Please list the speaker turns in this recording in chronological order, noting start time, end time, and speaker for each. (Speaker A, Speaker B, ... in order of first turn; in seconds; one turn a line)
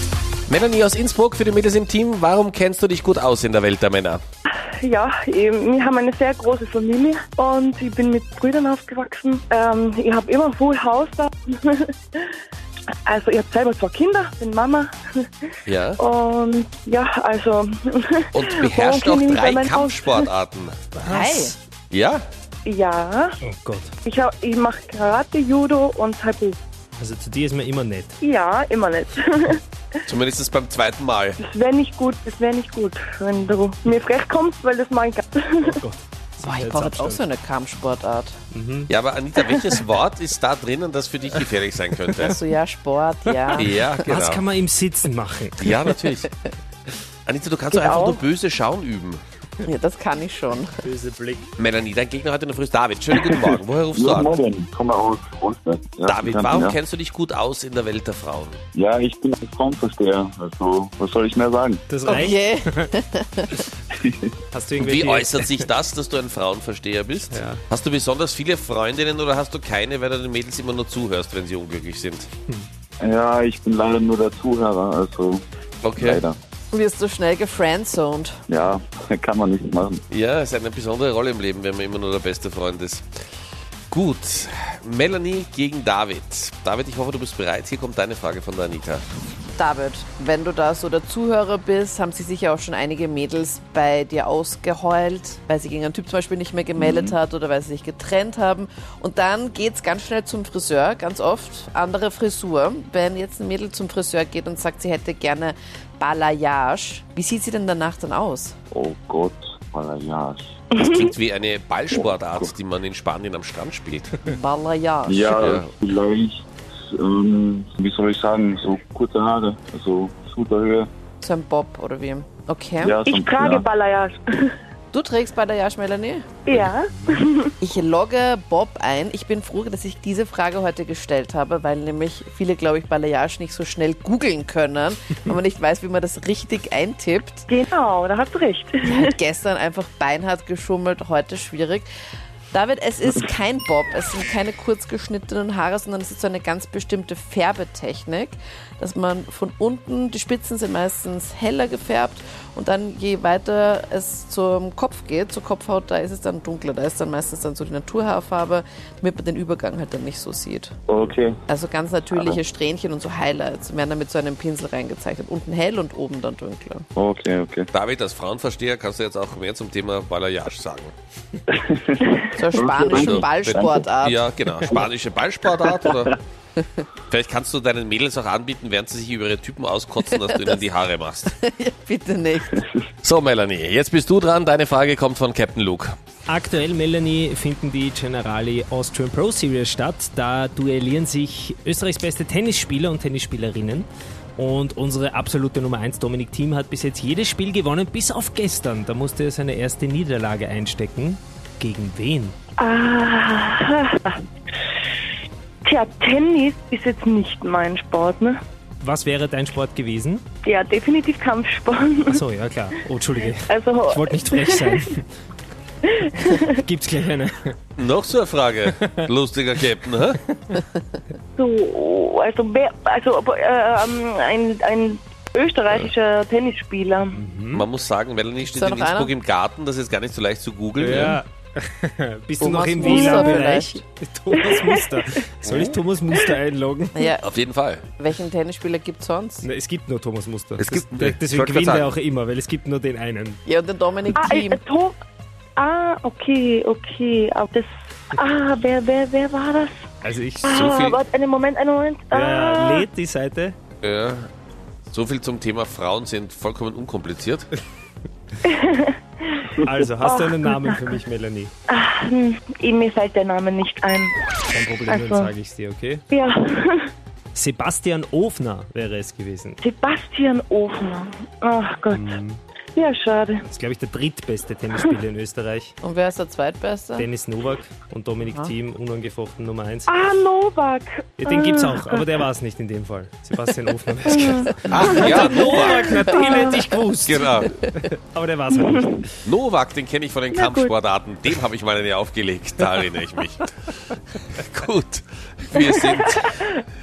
Speaker A: 0.5-4.2
Speaker B: 4.8-12.3
Speaker B: 13.1-15.3
Speaker A: 15.7-16.0
Speaker B: 16.0-20.2
Speaker A: 18.3-20.8
Speaker C: 20.9-21.6
Speaker D: 21.0-21.6
Speaker A: 21.9-22.2
Speaker B: 22.6-23.4
Speaker C: 23.4-23.9
Speaker B: 24.0-26.6
Speaker C: 27.0-28.1
Speaker B: 28.2-29.6
Speaker A: 30.1-31.4
Speaker B: 31.4-35.7
Speaker C: 35.6-37.2
Speaker D: 36.4-38.4
Speaker C: 38.5-38.9
Speaker A: 38.9-42.3
Speaker B: 39.4-39.7
Speaker C: 42.0-42.3
Speaker D: 42.2-44.0
Speaker C: 43.5-45.9
Speaker A: 43.5-44.4
Speaker A: 45.6-46.3
Speaker A: 47.3-49.2
Speaker B: 47.7-48.2
Speaker D: 49.6-50.7
Speaker C: 50.8-51.5
Speaker A: 51.6-54.3
Speaker E: 53.1-56.8
Speaker A: 56.0-58.6
Speaker E: 58.7-61.8
Speaker C: 61.9-62.9
Speaker D: 62.1-63.7
Speaker E: 64.0-64.3
Speaker C: 64.5-65.7
Speaker A: 64.8-72.3
Speaker C: 67.3-67.6
Speaker E: 73.0-75.4
Speaker A: 75.8-76.2
Speaker E: 76.0-76.4
Speaker D: 76.7-78.4
Speaker E: 78.5-80.0
Speaker A: 80.1-83.2
Speaker A: 83.9-89.0
Speaker D: 89.6-108.6
Speaker E: 96.8-97.1
Speaker E: 108.7-110.6
Speaker B: 110.8-111.0
Speaker A: 110.8-114.2
Speaker E: 111.9-112.5
Speaker D: 114.2-115.4
Speaker E: 115.0-120.9
Speaker A: 115.3-115.7
Speaker D: 121.2-123.0
Speaker E: 122.8-123.7
Speaker B: 123.0-124.5
Speaker D: 124.9-126.4
Speaker B: 126.5-127.5
Speaker D: 127.6-137.5
Speaker B: 137.5-139.0
Speaker D: 138.8-141.9
Speaker D: 142.5-160.8
Speaker E: 160.9-161.4
Speaker D: 161.5-166.8
Speaker E: 162.1-162.4
Speaker E: 166.9-167.7
Speaker A: 167.7-170.9
Speaker E: 171.5-173.9
Speaker D: 172.3-174.7
Speaker A: 172.9-176.2
Speaker D: 176.6-176.9
Speaker A: 177.1-181.3
Speaker D: 180.0-182.8
Speaker A: 183.0-185.9
Speaker C: 186.3-202.3
Speaker B: 202.6-204.2
Speaker B: 205.6-208.4
Speaker C: 208.8-210.2
Speaker B: 210.4-212.2
Speaker C: 212.1-215.1
Speaker B: 213.4-214.8
Speaker C: 216.3-217.6
Speaker A: 217.8-220.2
Speaker B: 221.4-227.2
Speaker C: 227.1-227.7
Speaker A: 227.5-231.2
Speaker D: 228.3-229.2
Speaker C: 230.8-237.1
Speaker D: 232.4-233.8
Speaker B: 232.8-233.4
Speaker D: 236.9-237.4
Speaker A: 237.2-237.9
Speaker D: 238.0-239.4
Speaker C: 239.4-243.4
Speaker A: 240.6-241.9
Speaker D: 243.4-244.6
Speaker B: 244.2-244.9
Speaker B: 245.6-249.8
Speaker C: 250.0-250.6
Speaker B: 250.4-252.8
Speaker A: 250.5-251.0
Speaker C: 252.1-253.6
Speaker A: 253.8-254.3
Speaker A: 254.9-257.5
Speaker B: 258.5-260.8
Speaker C: 259.6-261.5
Speaker B: 261.7-264.3
Speaker C: 264.5-266.0
Speaker B: 264.9-265.3
Speaker B: 266.1-266.9
Speaker C: 267.3-269.6
Speaker B: 269.6-272.1
Speaker C: 271.9-272.4
Speaker B: 272.7-273.4
Speaker C: 273.4-275.7
Speaker D: 275.8-277.1
Speaker C: 277.0-279.9
Speaker D: 278.2-278.5
Speaker B: 279.9-282.0
Speaker C: 281.2-289.2
Speaker B: 284.1-286.6
Speaker A: 284.7-285.9
Speaker A: 287.0-287.5
Speaker B: 288.5-288.9
Speaker A: 289.2-296.4
Speaker B: 290.3-290.7
Speaker B: 295.5-296.5